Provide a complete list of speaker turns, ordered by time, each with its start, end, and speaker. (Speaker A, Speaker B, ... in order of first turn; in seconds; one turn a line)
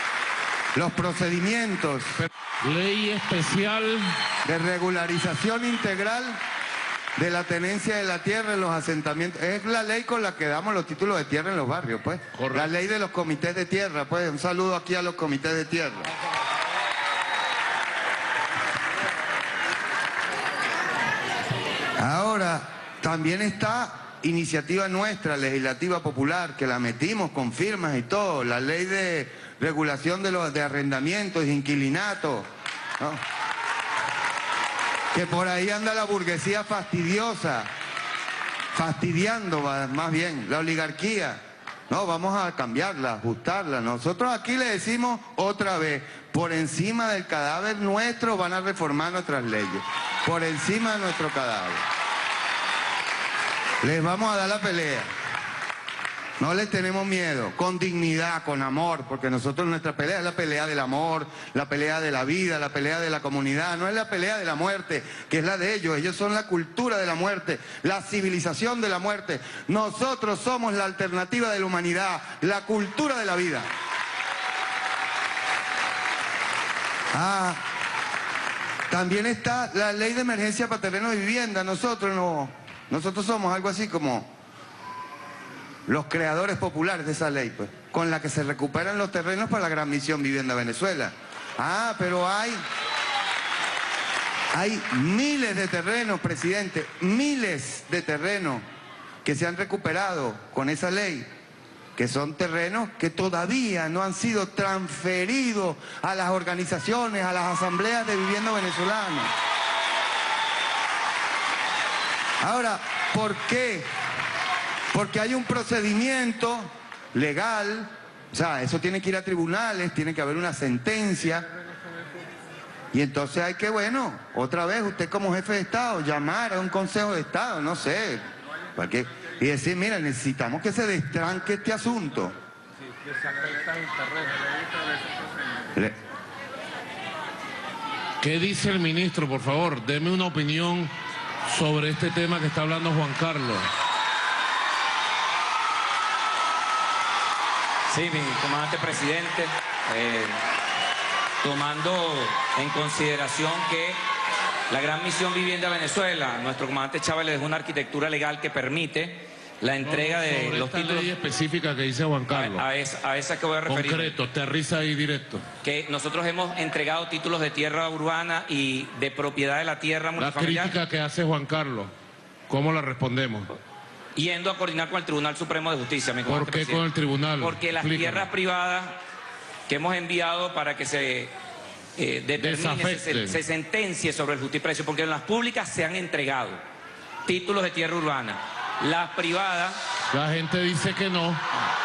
Speaker A: 0.7-2.1
Speaker B: 2.6-4.1
Speaker A: 4.5-6.4
Speaker A: 7.2-16.1
Speaker B: 12.3-12.7
Speaker A: 22.0-32.5
Speaker A: 35.1-37.7
Speaker A: 38.7-51.8
Speaker A: 53.8-55.1
Speaker A: 56.4-73.7
Speaker A: 77.1-77.6
Speaker A: 78.9-84.3
Speaker A: 85.9-92.6
Speaker A: 94.5-98.6
Speaker A: 99.2-101.3
Speaker A: 102.0-109.3
Speaker A: 112.4-113.9
Speaker A: 114.9-121.5
Speaker A: 122.9-128.2
Speaker A: 128.8-132.3
Speaker B: 138.2-140.9
Speaker B: 141.4-143.7
Speaker C: 147.9-150.4
Speaker C: 151.4-154.0
Speaker C: 154.7-161.1
Speaker B: 159.8-162.6
Speaker C: 162.3-164.2
Speaker B: 163.7-165.4
Speaker C: 165.6-170.7
Speaker B: 170.2-171.9
Speaker B: 172.5-173.5
Speaker C: 174.2-176.8
Speaker B: 176.2-178.3
Speaker C: 177.4-179.0
Speaker C: 179.7-181.3
Speaker C: 182.0-186.6
Speaker B: 182.4-183.4
Speaker C: 187.2-189.8
Speaker B: 190.1-191.4